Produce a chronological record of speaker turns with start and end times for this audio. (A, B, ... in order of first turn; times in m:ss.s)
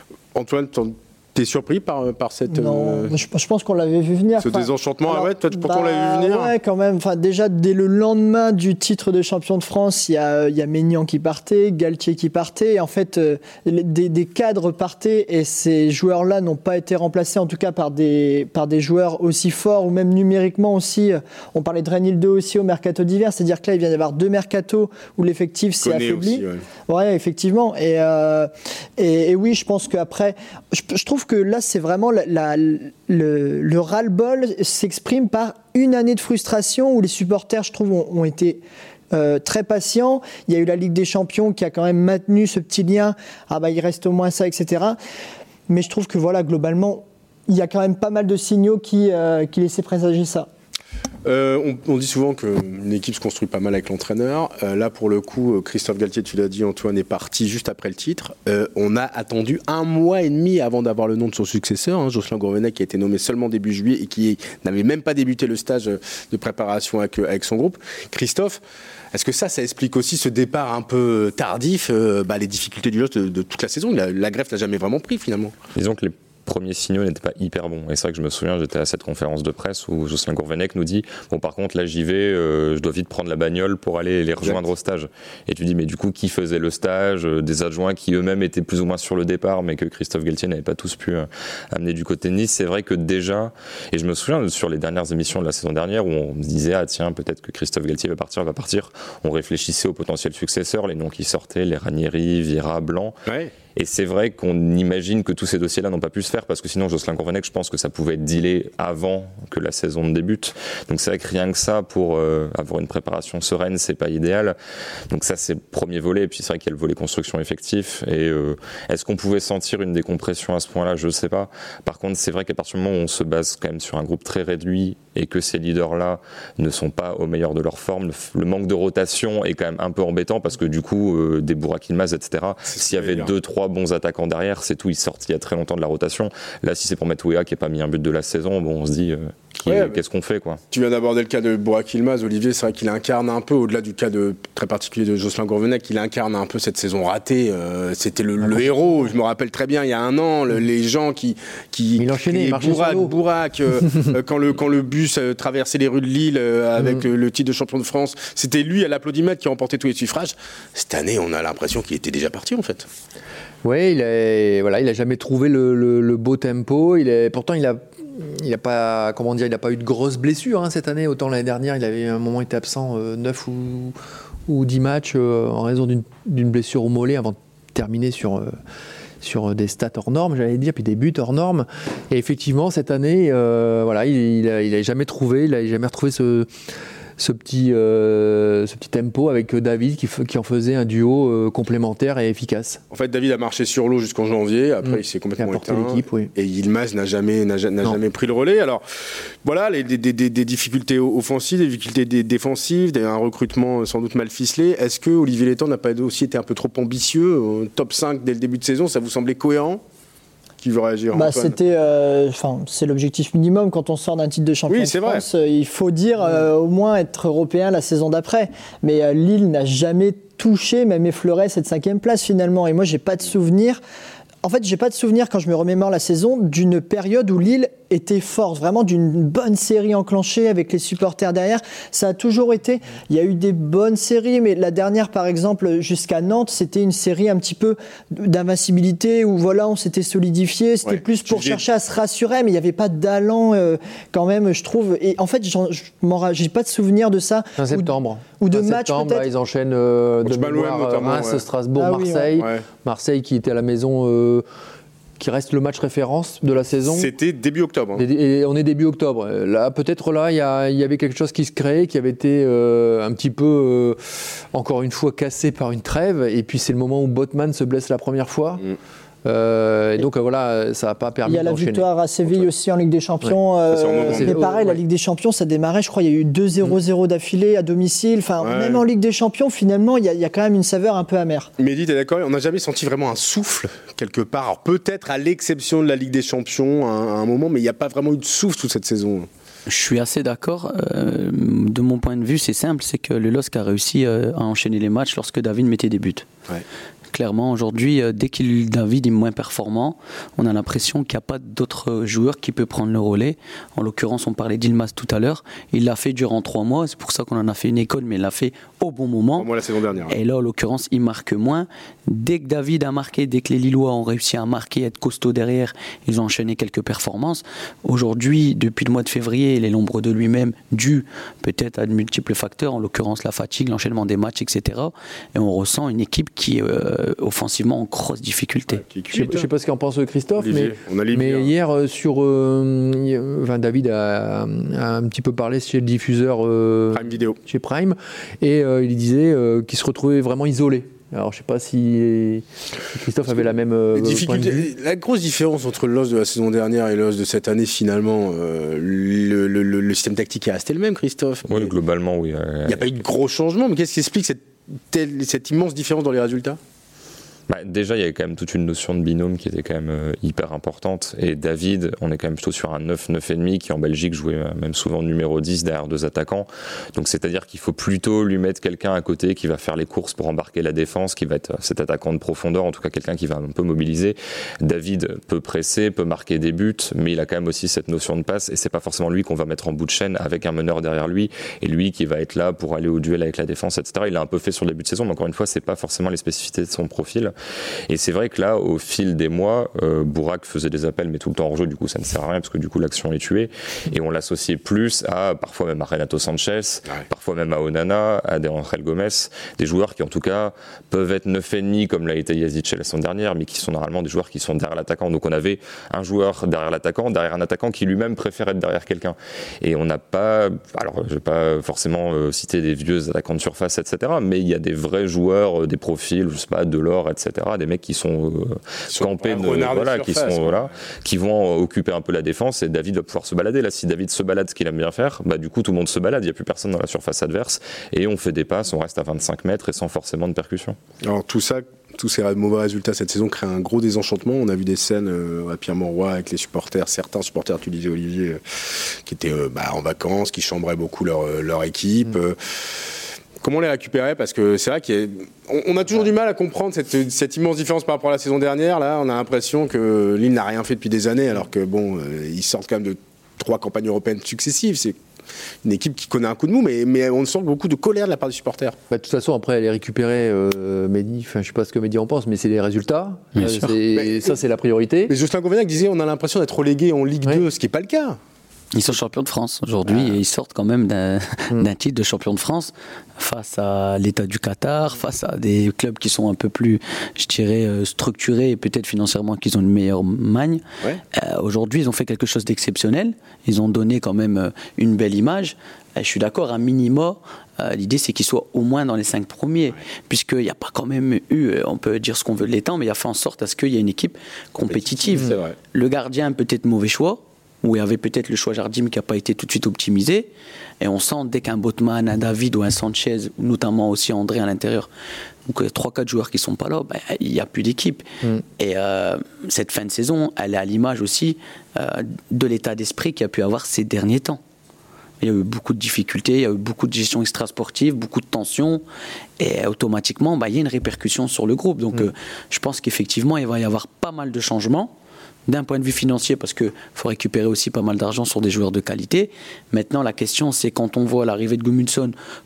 0:00.3-0:03.2 A
0:02.5-0:45.0 B
0:04.4-0:06.5 A
0:25.8-0:26.6 A
0:45.7-0:50.5 B
0:51.2-1:08.6 A
1:09.1-1:15.5 A
1:15.8-1:43.1 C
1:43.3-1:43.5 A
1:43.7-1:54.6 C
1:55.1-2:20.6 C
2:12.7-2:13.3 A
2:19.6-2:20.0 A
2:20.7-2:42.9 A
2:28.4-2:29.1 D
2:32.0-2:33.1 D
2:43.6-2:54.0 D
2:54.5-2:58.5 D
2:59.2-3:06.5 D
3:07.2-3:12.8 D
3:12.9-3:18.8 A
3:14.8-3:16.3 D
3:19.4-3:29.8 A
3:30.6-3:31.5 A
3:31.1-3:43.8 B
3:34.7-3:35.2 A
3:44.4-4:09.3 B
4:00.8-4:01.6 A
4:07.6-4:14.4 D
4:10.2-4:11.4 A
4:11.8-4:12.3 B
4:12.3-4:12.6 A
4:15.2-4:17.1 D
4:16.9-4:18.0 A
4:18.0-4:24.0 D
4:24.5-4:28.6 D
4:29.2-4:32.4 D
4:31.2-4:41.5 B
4:33.7-4:34.4 A
4:34.0-4:34.8 D
4:38.4-4:38.8 A
4:41.6-4:49.3 A
4:49.7-4:56.2 E
4:57.1-5:09.5 E
5:09.4-5:10.1 A
5:10.1-5:28.8 E
5:28.7-5:29.5 A
5:29.1-5:44.7 D
5:30.4-5:31.5 A
5:36.9-5:37.4 A
5:43.9-5:51.7 A
5:51.4-5:52.9 C
5:52.7-5:56.6 A
5:57.5-6:27.3 C
6:27.9-7:10.8 C
6:58.9-7:00.7 A
7:11.0-7:22.4 A
7:23.4-7:35.0 A
7:35.6-7:38.8 A
7:38.9-7:45.1 D
7:43.4-7:43.7 E
7:43.9-7:44.3 A
7:45.1-7:48.2 A
7:48.7-8:20.3 E
7:49.9-7:50.2 A
8:14.7-8:15.6 A
8:20.8-8:24.9 E
8:25.4-8:28.0 E
8:28.6-8:34.4 E
8:35.2-8:38.8 E
8:39.4-8:44.9 E
8:45.5-8:52.1 E